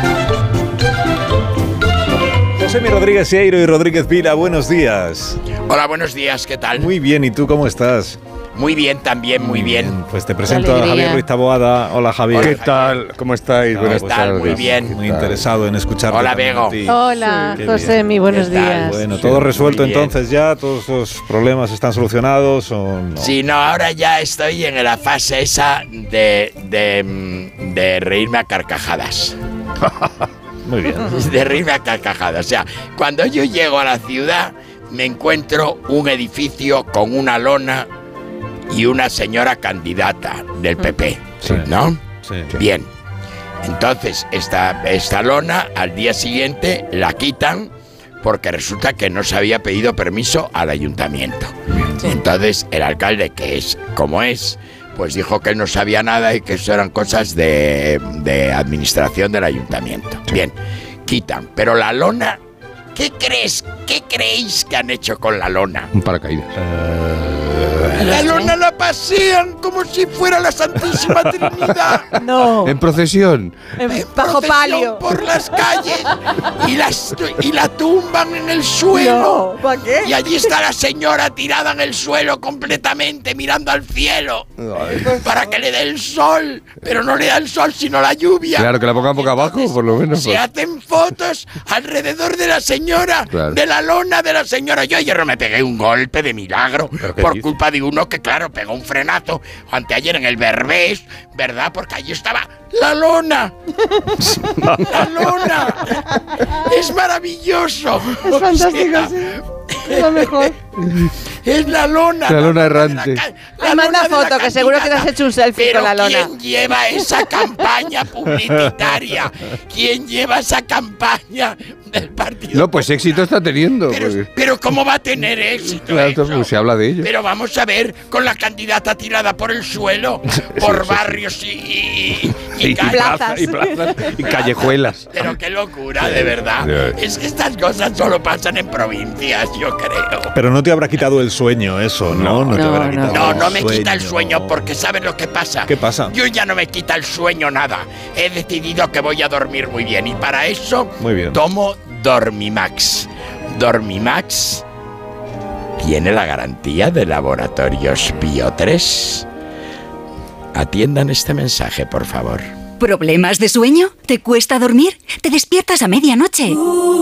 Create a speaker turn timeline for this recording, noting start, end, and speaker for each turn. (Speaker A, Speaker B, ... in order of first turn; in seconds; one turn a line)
Speaker A: 2.6-5.4
Speaker B: 5.7-6.9
Speaker A: 6.8-8.2
Speaker B: 8.6-10.0
Speaker A: 9.3-12.6
Speaker C: 10.4-11.2
Speaker B: 12.3-13.0
Speaker D: 12.3-15.5
Speaker A: 13.7-18.1
Speaker B: 13.9-15.0
Speaker B: 16.1-16.8
Speaker C: 16.8-19.1
Speaker B: 18.3-20.1
Speaker A: 18.7-23.3
Speaker B: 23.2-29.4
Speaker A: 30.6-31.2
Speaker B: 31.1-37.9
Speaker B: 38.7-42.0
Speaker A: 41.4-41.7
Speaker A: 42.2-42.5
Speaker B: 42.5-42.9
Speaker B: 43.6-47.7
Speaker B: 48.2-60.5
Speaker B: 61.0-62.4
Speaker B: 62.9-65.9
Speaker D: 65.9-68.0
Speaker B: 67.9-72.2
Speaker C: 68.1-68.5
Speaker C: 72.2-72.8
Speaker D: 72.5-73.8
Speaker C: 73.8-76.1
Speaker B: 73.9-103.5
Speaker C: 78.9-80.2
Speaker D: 84.7-85.0
Speaker D: 88.5-90.5
Speaker D: 93.3-93.6
Speaker A: 97.0-97.5
Speaker B: 104.6-110.5
Speaker C: 108.2-110.6
Speaker B: 111.4-123.3
Speaker D: 112.2-113.2
Speaker C: 113.7-116.3
Speaker C: 117.2-117.5
Speaker D: 122.5-124.3
Speaker B: 123.9-133.3
Speaker D: 125.8-127.1
Speaker D: 130.6-131.2
Speaker D: 132.6-135.3
Speaker C: 132.9-134.2
Speaker B: 134.0-140.3
Speaker D: 136.0-137.0
Speaker A: 140.3-144.6
Speaker D: 142.1-142.7
Speaker C: 142.5-143.4
Speaker B: 143.1-154.6
Speaker A: 145.7-146.2
Speaker A: 151.0-151.4
Speaker B: 155.8-159.2
Speaker B: 160.5-162.5
Speaker E: 162.8-166.6